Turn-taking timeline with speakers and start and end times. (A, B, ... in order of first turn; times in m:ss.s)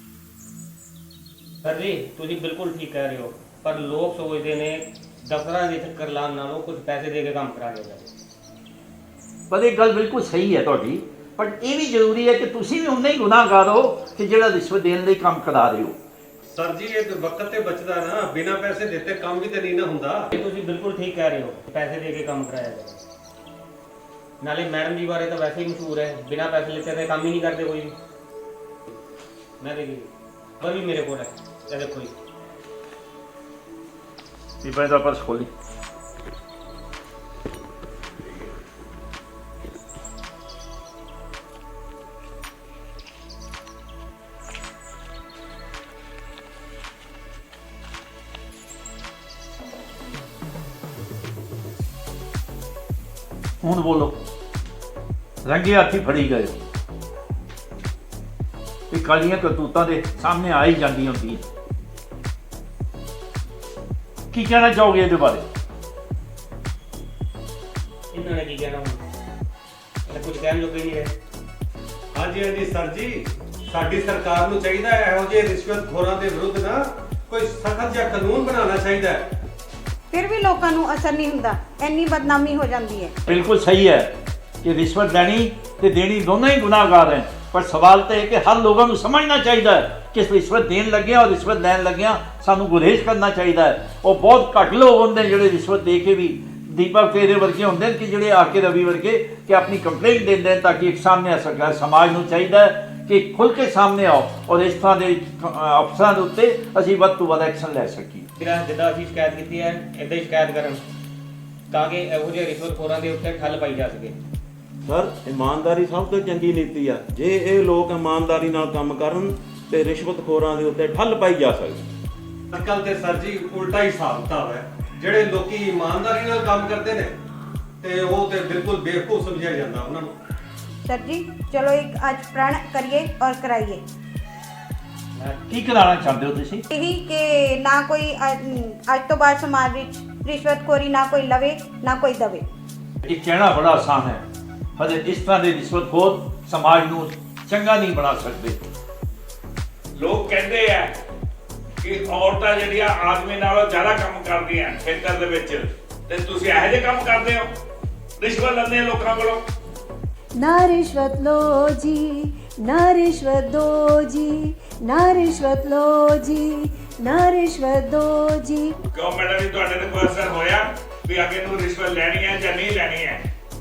0:01.6-0:08.1 A
0:09.5-0:16.0 B
0:16.5-0:20.4 C
0:20.4-0:23.0 A
0:24.4-0:28.0 A
0:29.6-0:30.1 A
0:30.6-0:32.1 A
0:34.6-0:35.5 B
0:53.6-0:54.2 B
0:55.4-0:56.6 B
0:58.9-1:01.4 B
1:04.3-1:05.4 B
1:08.1-1:09.0 A
1:10.1-1:11.1 A
1:12.2-1:19.2 C
1:20.1-1:23.2 D
1:23.3-1:48.3 B
1:48.4-1:50.8 A
1:51.7-1:54.2 A
1:54.9-2:01.9 E
2:02.5-2:07.2 C
2:07.8-2:10.2 C
2:10.8-2:13.8 D
2:15.2-2:15.5 A
2:15.5-2:16.6 B
2:16.7-2:22.5 D
2:23.1-2:24.2 B
2:24.8-2:28.6 B
2:30.0-2:30.9 F
2:31.8-2:37.5 F
2:38.2-2:39.4 F
2:40.4-2:48.8 G
2:48.9-2:53.2 F